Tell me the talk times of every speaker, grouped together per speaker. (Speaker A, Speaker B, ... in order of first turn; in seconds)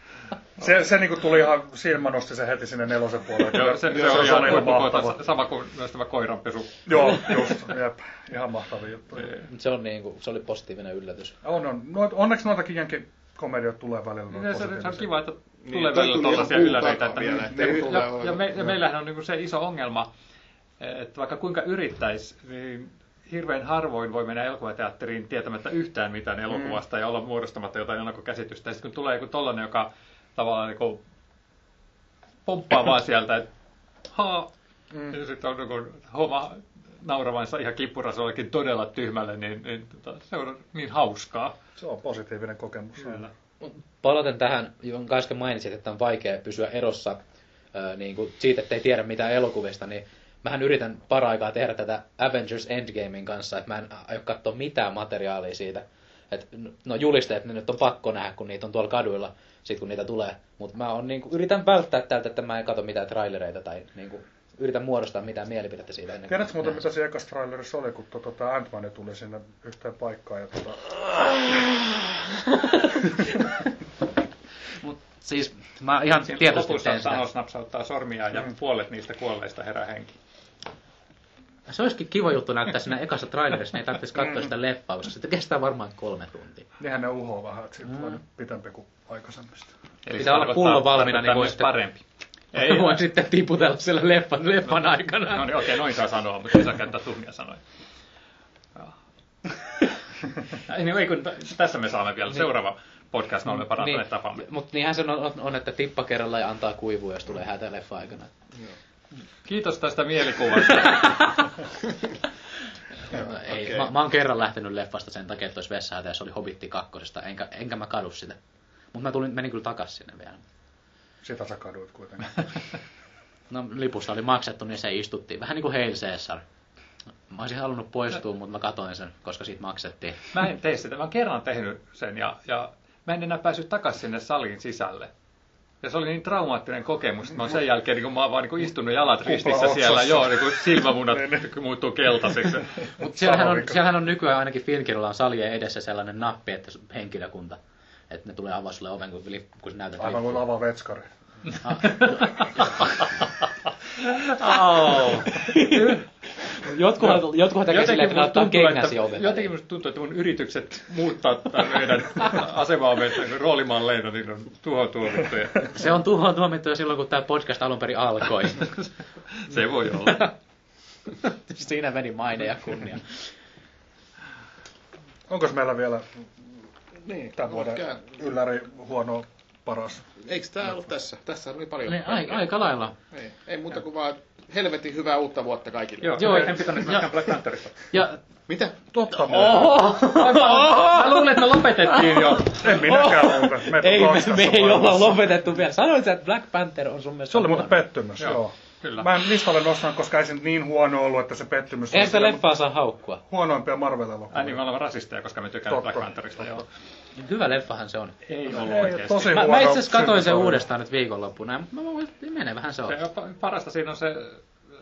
Speaker A: 0.6-5.2, 6.8-9.3, 11.4-15.1, 26.5-26.8, 34.9-35.2, 41.8-43.3, 66.3-71.5, 84.2-84.5, 86.8-89.7, 121.2-122.4, 139.2-141.4, 143.0-143.8, 150.0-151.1, 175.3-176.2, 177.3-180.0, 188.9-189.8, 192.5-195.3, 197.3-202.4, 203.2-204.6, 205.7-206.6, 208.5-210.7
Speaker B: 3.4-7.6, 14.3-20.1, 20.8-31.0, 32.5-33.5, 34.1-34.5, 35.1-41.6, 76.3-80.2, 90.0-92.0, 92.5-93.0, 95.3-97.6, 100.5-104.4, 109.5-111.3, 130.3-135.1, 135.8-142.8, 151.9-152.4, 154.0-156.0, 157.0-165.7, 169.4-170.3, 186.0-187.8, 189.4-192.6, 198.2-199.1, 204.3-206.7, 208.2-209.4, 212.9-214.4
Speaker C: 9.5-11.3, 43.6-47.2, 47.7-66.8, 72.5-73.5, 74.8-77.2, 81.7-86.7, 90.2-91.7, 92.5-95.7, 103.7-108.3, 110.9-111.4, 113.1-118.4, 118.9-120.4, 123.5-126.4, 127.3-130.3, 143.0-147.6, 148.1-150.4, 151.6-152.8, 155.3-156.0, 156.6-159.5, 165.7-168.8, 171.2-173.0, 181.9-182.9, 186.2-187.1, 187.9-188.2, 189.3-197.8, 201.9-203.2, 207.2-208.1, 209.3-212.9
Speaker D: 15.6-18.5, 113.1-113.9, 177.1-178.0, 180.2-182.5, 183.1-186.8, 188.5-189.2